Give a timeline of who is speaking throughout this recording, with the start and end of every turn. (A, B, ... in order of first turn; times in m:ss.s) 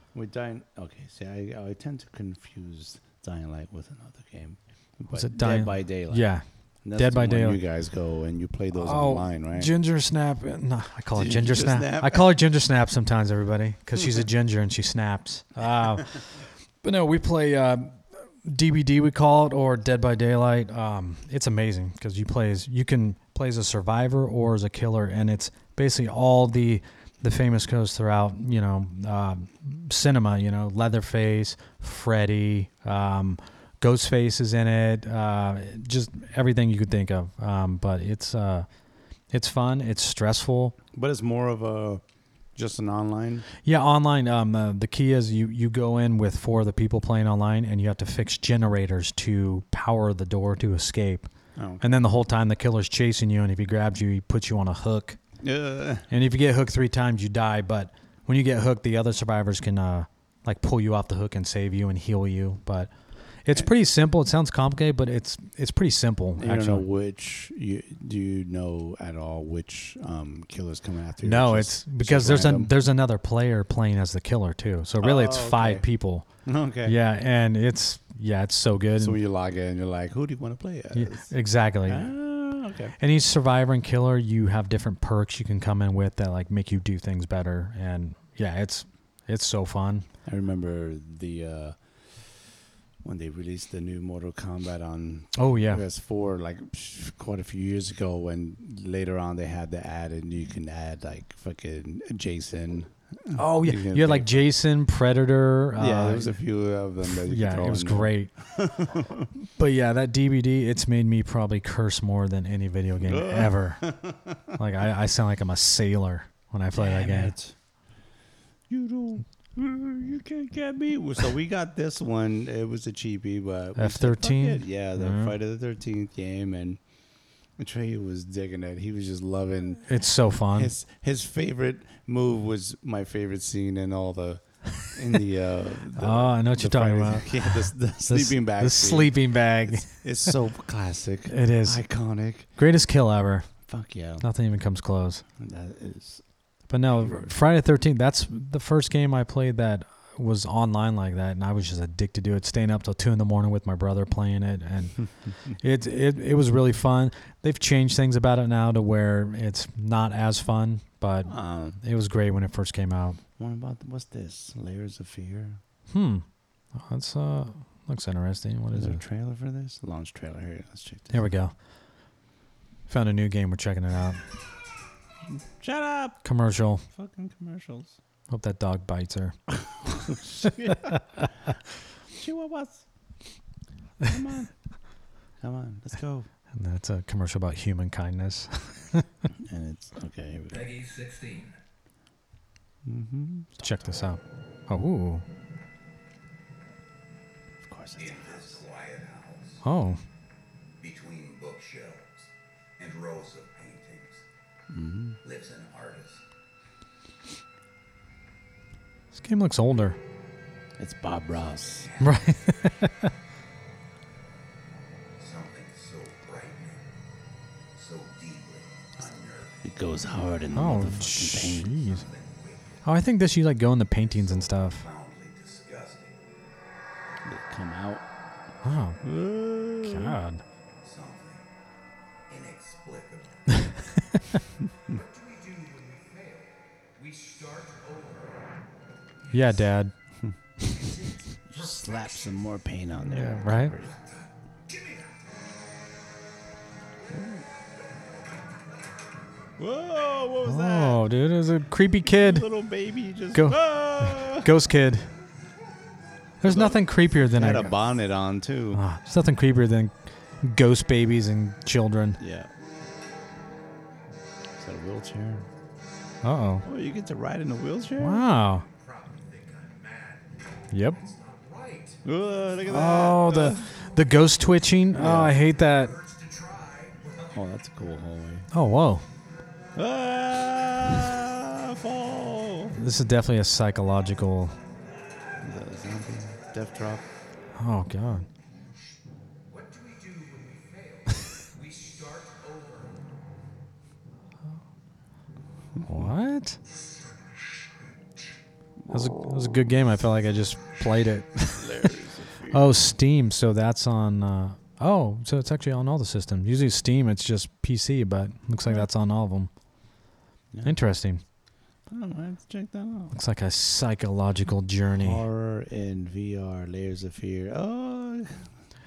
0:00.1-0:06.3 A
0:05.1-0:06.4 B
0:06.8-0:09.7 A
0:06.9-0:07.6 B
0:08.7-0:38.7 B
0:11.1-0:12.3 A
0:39.3-0:40.7 B
0:40.9-0:42.0 A
0:42.6-0:43.5 A
0:43.6-0:51.3 B
0:51.6-0:52.0 A
0:51.8-0:55.2 B
0:55.4-0:56.1 A
0:56.1-1:02.9 B
1:03.4-1:06.8 B
1:06.4-1:12.7 A
1:11.2-1:16.2 B
1:15.0-1:15.8 A
1:16.4-1:17.0 A
1:16.8-1:19.2 B
1:19.0-1:21.3 A
1:20.9-1:22.1 B
1:21.8-1:22.9 A
1:23.0-1:30.0 B
1:30.2-1:32.2 A
1:33.0-1:44.3 A
1:35.3-1:35.8 B
1:43.4-1:46.4 B
1:45.8-1:49.3 A
1:47.0-1:48.3 B
1:49.6-1:53.9 B
1:53.0-1:54.5 A
1:54.5-1:57.3 B
1:56.7-1:57.5 A
1:58.7-2:06.8 A
2:03.8-2:05.3 B
2:07.6-2:09.9 A
2:09.8-2:10.7 B
2:10.5-2:22.5 A
2:16.0-2:20.3 B
2:21.3-2:21.8 B
2:22.6-2:23.5 B
2:23.6-2:24.2 A
2:24.2-2:25.2 B
2:25.4-2:26.2 A
2:26.7-2:43.2 B
2:26.8-2:27.3 A
2:41.3-2:41.8 A
2:43.4-2:45.6 A
2:45.9-2:46.2 B
2:46.8-2:49.0 B
2:48.7-2:51.2 A
2:51.1-2:51.5 B
2:52.9-2:54.2 B
2:55.4-2:56.2 A
2:56.2-2:56.8 B
2:56.9-2:58.0 A
2:58.3-2:59.9 B
2:59.8-3:01.5 A
3:02.1-3:02.8 A
3:04.0-3:04.5 A
3:05.4-3:06.3 A
3:06.5-3:09.1 B
3:09.3-3:10.7 A
3:10.5-3:11.6 C
3:12.8-3:14.0 A
3:13.6-3:15.2 B
3:17.7-3:18.6 A
3:18.0-3:19.6 C
3:19.6-3:20.0 B
3:20.8-3:24.2 C
3:24.7-3:25.2 A
3:25.2-3:26.2 C
3:29.1-3:30.0 B
3:30.8-3:32.0 A
3:32.0-3:33.1 B
3:35.2-3:36.9 C
3:37.7-3:39.6 C
3:39.6-3:41.8 A
3:40.5-3:42.0 B
3:41.7-3:42.8 C
3:42.8-3:44.9 B
3:44.2-3:46.2 C
3:47.2-3:48.0 A
3:48.6-3:49.0 B
3:49.0-3:50.2 A
3:49.8-3:50.4 B
3:50.8-3:51.5 C
3:52.3-3:53.8 C
3:54.1-3:54.4 B
3:54.8-3:58.4 C
3:59.3-3:59.9 B
4:00.6-4:02.3 C
4:01.5-4:04.0 A
4:03.0-4:03.7 B
4:04.6-4:05.2 C
4:07.1-4:07.4 A
4:09.6-4:11.0 A
4:10.4-4:12.5 B
4:12.0-4:14.5 A
4:13.3-4:15.1 B
4:16.4-4:17.7 B
4:16.4-4:18.8 A
4:18.7-4:22.2 B
4:22.2-4:22.5 A
4:24.6-4:25.4 A
4:26.2-4:26.6 B
4:26.6-4:28.2 A
4:28.0-4:28.6 B
4:28.6-4:30.4 C
4:30.7-4:31.0 B
4:30.9-4:32.0 C
4:32.0-4:33.7 A
4:32.6-4:35.9 B
4:34.9-4:35.4 A
4:35.3-4:37.4 C
4:37.3-4:38.5 A
4:38.5-4:39.0 B
4:39.7-4:42.8 A
4:42.7-4:44.6 B
4:45.4-4:47.0 A
4:47.6-4:48.3 B
4:49.5-4:53.0 C
4:55.8-4:56.1 A
4:55.8-4:56.6 B
4:58.9-5:01.9 B
5:01.6-5:02.7 A
5:02.5-5:09.5 B
5:10.6-5:11.2 B
5:11.9-5:13.1 A
5:13.1-5:15.2 B
5:15.0-5:18.5 A